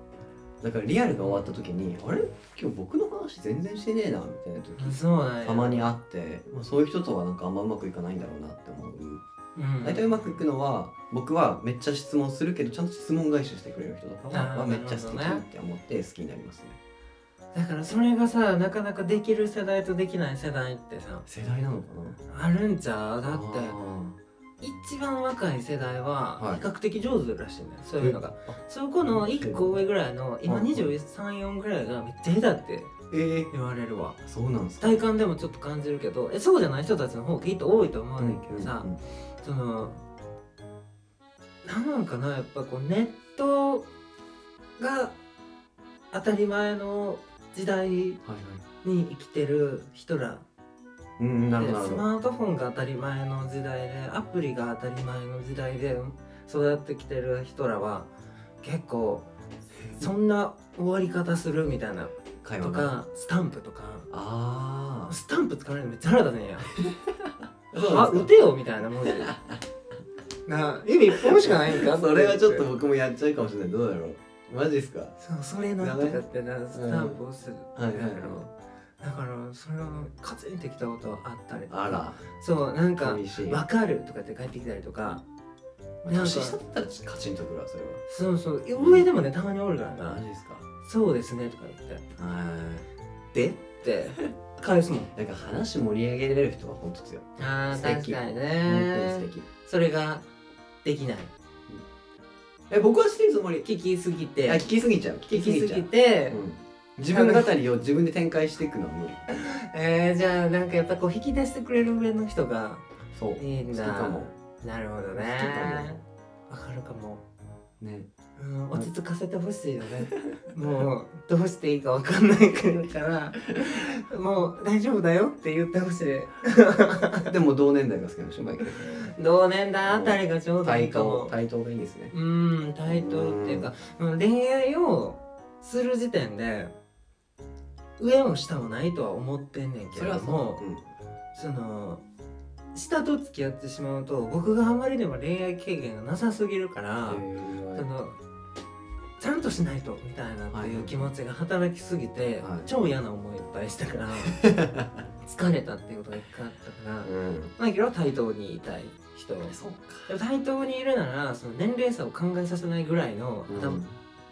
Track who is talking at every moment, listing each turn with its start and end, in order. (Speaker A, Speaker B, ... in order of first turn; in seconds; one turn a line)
Speaker A: 0.6-9.2
Speaker B: 4.8-5.9
Speaker B: 9.6-10.4
Speaker A: 9.8-16.8
Speaker B: 14.3-15.4
Speaker B: 17.5-21.2
Speaker A: 21.2-22.2
Speaker B: 22.3-23.8
Speaker A: 23.2-24.2
Speaker B: 24.6-32.9
Speaker A: 26.4-26.6
Speaker A: 28.0-28.6
Speaker A: 29.1-29.8
Speaker A: 30.4-30.9
Speaker A: 33.1-33.5
Speaker B: 33.5-34.2
Speaker A: 34.2-35.1
Speaker B: 34.8-40.0
Speaker A: 38.2-39.0
Speaker B: 41.6-43.9
Speaker B: 44.8-45.1
Speaker B: 46.1-48.2
Speaker A: 48.2-48.6
Speaker B: 48.8-50.4
Speaker A: 51.2-52.0
Speaker B: 51.6-58.1
Speaker B: 58.6-59.2
Speaker B: 59.9-64.1
Speaker A: 62.4-62.9
Speaker A: 64.1-65.1
Speaker B: 65.1-66.7
Speaker A: 67.7-68.3
Speaker B: 67.7-69.3
Speaker A: 69.1-69.6
Speaker B: 70.5-72.7
Speaker A: 71.2-75.1
Speaker B: 75.2-85.2
Speaker A: 75.8-76.2
Speaker A: 76.7-77.2
Speaker A: 77.8-78.4
Speaker A: 81.7-82.2
Speaker A: 83.0-83.6
Speaker B: 86.0-86.5
Speaker A: 86.1-88.0
Speaker B: 88.1-90.2
Speaker A: 88.8-89.1
Speaker A: 90.0-90.7
Speaker B: 90.8-92.0
Speaker A: 92.1-92.8
Speaker B: 93.3-95.1
Speaker A: 95.1-99.5
Speaker B: 97.4-100.2
Speaker B: 100.8-101.3
Speaker A: 102.7-103.7
Speaker B: 103.6-104.6
Speaker A: 104.4-109.3
Speaker B: 105.3-106.4
Speaker B: 107.0-107.5
Speaker B: 109.3-112.8
Speaker A: 113.1-114.3
Speaker B: 113.4-117.2
Speaker A: 115.1-116.0
Speaker A: 117.8-118.1
Speaker B: 118.4-127.3
Speaker A: 127.2-128.9
Speaker B: 128.8-131.3
Speaker A: 129.8-132.1
Speaker B: 132.1-136.7
Speaker A: 132.8-133.7
Speaker B: 138.0-140.6
Speaker A: 139.9-140.8
Speaker B: 141.3-142.0
Speaker B: 142.7-148.2
Speaker A: 147.1-147.9
Speaker B: 149.2-154.4
Speaker A: 150.5-151.1
Speaker A: 152.4-152.7
Speaker A: 154.3-155.0
Speaker B: 155.2-159.6
Speaker A: 157.0-157.5
Speaker A: 159.5-160.1
Speaker B: 160.1-163.8
Speaker A: 163.5-163.9